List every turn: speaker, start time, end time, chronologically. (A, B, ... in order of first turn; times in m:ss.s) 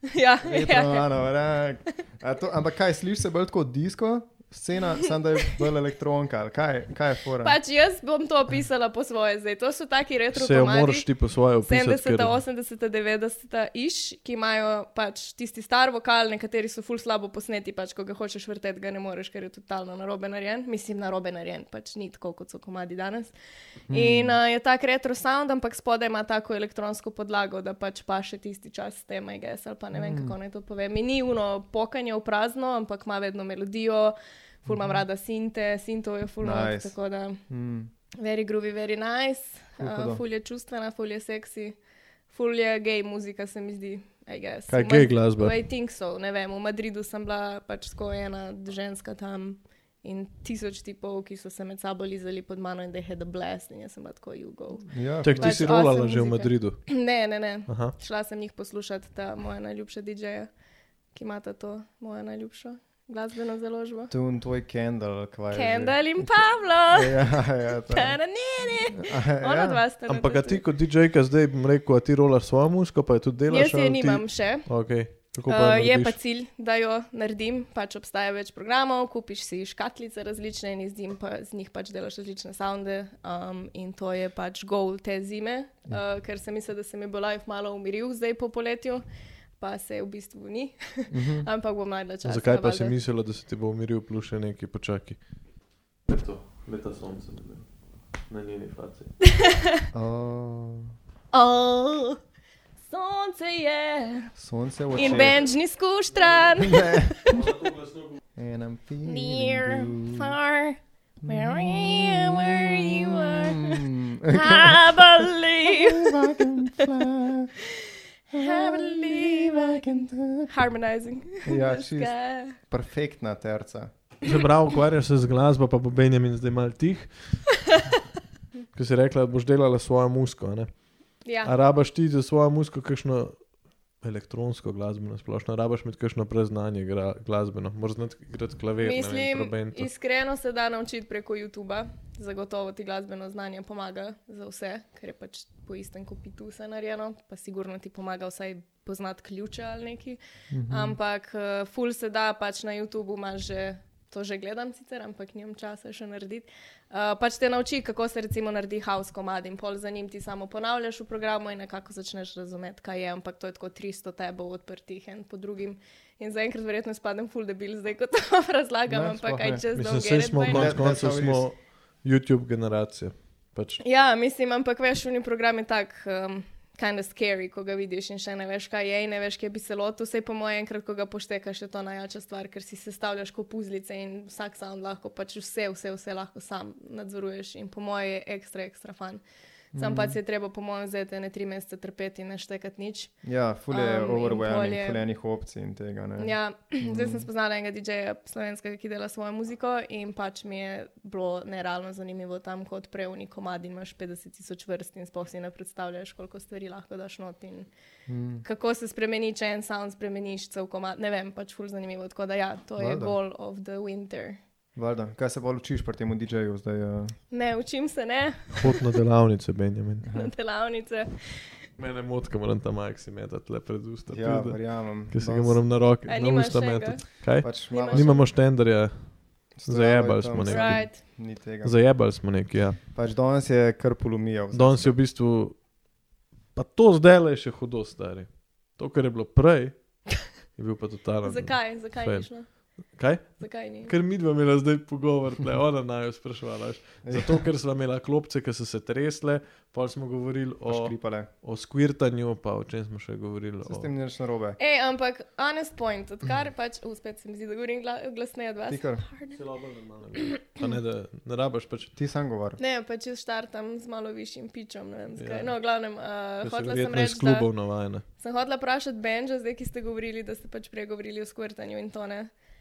0:00.1-0:01.1 A
0:00.4-0:07.6 B
0:07.4-0:23.3 A
0:10.3-0:12.4 C
0:23.9-0:24.4 B
0:23.9-0:37.4 A
0:29.9-0:30.3 B
0:34.7-0:35.0 B
0:36.4-0:36.9 B
0:37.5-0:37.9 B
0:38.2-0:41.8 A
0:39.8-0:40.2 B
0:42.3-1:00.5 A
0:44.7-0:45.5 C
0:54.9-0:55.6 B
0:55.2-0:56.8 C
0:57.7-0:57.9 C
1:01.1-1:04.1 A
1:04.1-1:06.3 B
1:05.5-1:10.6 A
1:06.9-1:08.2 B
1:09.0-1:09.8 B
1:10.1-1:16.2 C
1:13.5-1:14.9 A
1:15.5-1:29.0 A
1:29.6-1:33.0 A
1:31.1-1:31.5 B
1:32.2-1:35.2 C
1:36.0-1:37.7 C
1:38.2-1:39.1 C
1:39.3-1:39.8 A
1:39.9-1:40.9 B
1:41.3-1:42.2 A
1:42.9-1:44.3 A
1:44.4-1:45.4 B
1:44.9-1:47.4 A
1:46.6-1:47.4 B
1:47.3-1:48.2 C
1:48.4-1:50.4 B
1:49.0-1:56.8 A
1:51.2-1:57.5 B
1:58.3-2:00.5 B
1:58.3-2:02.6 A
2:01.4-2:04.1 B
2:04.2-2:07.5 C
2:08.7-2:19.9 C
2:11.2-2:11.5 A
2:18.8-2:50.8 A
2:30.5-2:31.0 B
2:48.9-2:49.6 B
2:49.7-2:53.8 C
2:50.4-2:51.4 B
2:53.8-3:09.2 A
3:09.7-3:10.2 B
3:09.7-3:13.1 A
3:13.2-3:17.3 B
3:13.7-3:15.0 A
3:16.2-3:27.7 A
3:28.1-3:28.4 B
3:28.4-3:34.4 A
3:32.8-3:33.2 B
3:34.8-3:37.2 B
3:37.3-3:38.8 A
3:38.6-3:40.1 C
3:40.0-3:40.3 B
3:40.1-3:41.4 A
3:41.8-3:52.8 C
3:44.1-3:45.6 B
3:46.1-3:48.3 A
3:47.4-3:48.2 B
3:49.6-3:51.8 B
3:50.5-3:51.0 A
3:52.9-3:54.9 B
3:54.5-3:55.6 C
3:56.5-4:13.9 C
4:01.2-4:02.5 A
4:03.4-4:03.9 A
4:07.0-4:07.4 B
4:10.6-4:11.3 B
4:13.6-4:14.6 B
4:14.6-4:19.4 A
4:18.7-4:19.0 B
4:19.3-4:21.9 C
4:20.2-4:20.7 A
4:22.0-4:22.6 B
4:22.6-4:27.5 A
4:25.2-4:25.5 C
4:26.4-4:28.0 C
4:28.2-4:32.3 A